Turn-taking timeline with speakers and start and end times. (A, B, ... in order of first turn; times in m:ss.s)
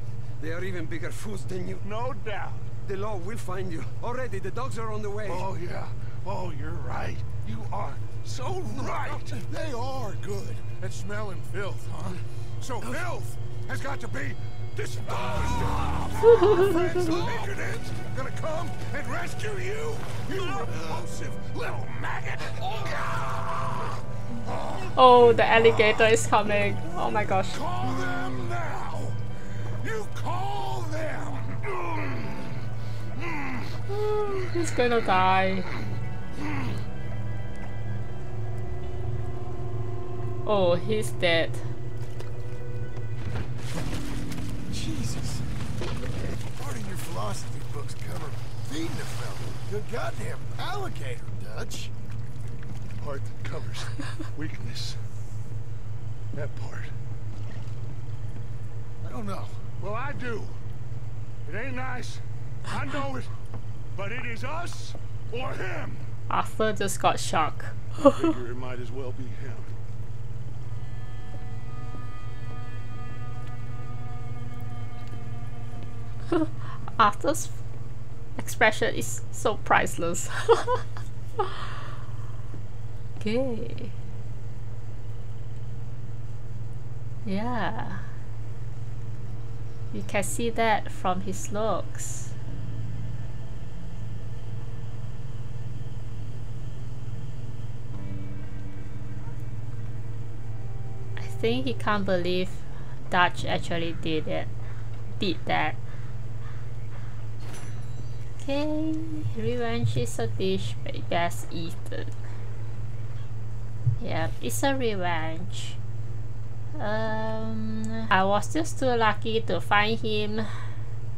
0:00.4-0:01.8 A
0:01.8-0:02.7 B
0:02.8-0:05.5 A
0:05.3-0:23.6 B
0:08.9-0:09.2 A
0:16.4-0:17.4 C
0:24.4-0:26.1 B
0:24.9-0:27.6 D
0:27.5-0:29.2 B
0:29.8-0:32.5 B
0:33.2-0:33.7 B
0:33.9-0:35.7 D
0:40.5-0:41.6 D
0:44.7-0:45.4 C
0:46.5-0:51.9 C
0:50.8-0:51.3 B
0:53.0-0:55.0 B
0:56.3-0:56.9 B
0:59.0-0:59.6 C
0:59.8-1:00.6 B
1:01.5-1:03.3 B
1:03.9-1:06.1 B
1:06.3-1:08.1 D
1:08.0-1:09.8 B
1:16.3-1:17.6 D
1:18.4-1:20.8 D
1:21.4-1:21.8 D
1:23.2-1:23.9 D
1:27.2-1:28.1 D
1:29.9-1:32.3 D
1:41.2-1:44.5 D
1:45.2-1:45.8 D
1:48.4-1:52.1 D
1:54.0-1:55.8 D
1:56.8-2:00.5 D